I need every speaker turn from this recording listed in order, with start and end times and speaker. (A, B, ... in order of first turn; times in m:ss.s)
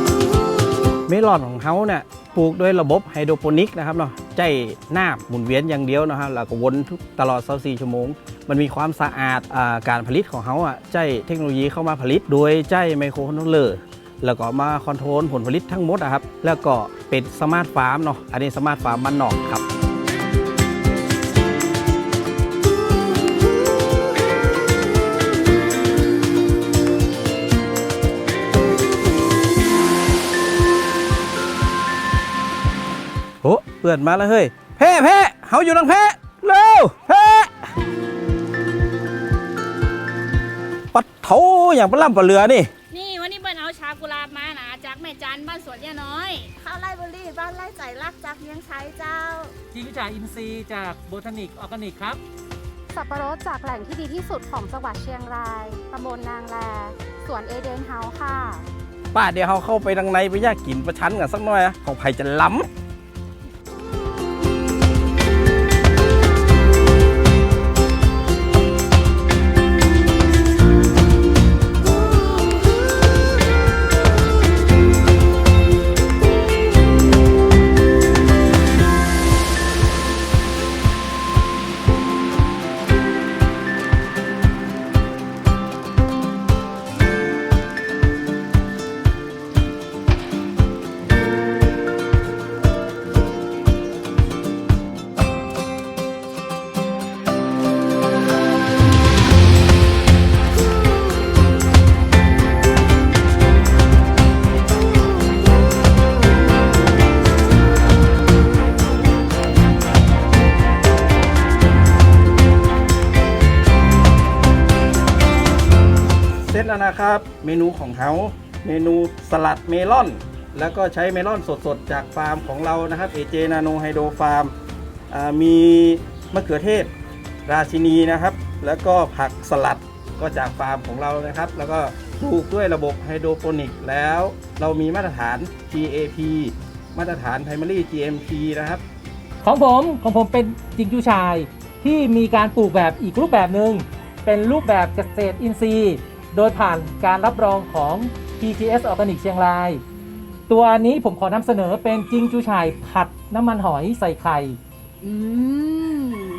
0:01.1-0:19.6 A
0:33.4-0:37.7 A
0:40.9-0:42.7 A
0:42.9-0:46.5 B
0:46.6-0:49.5 C
0:49.7-0:52.2 D
0:52.9-0:58.6 E
0:59.1-1:02.7 A
1:56.5-2:04.5 A
2:05.1-2:06.9 A
2:07.5-2:18.8 A
2:19.4-2:29.8 D
2:30.5-2:34.6 D
2:35.0-2:36.1 C
2:35.2-2:36.0 E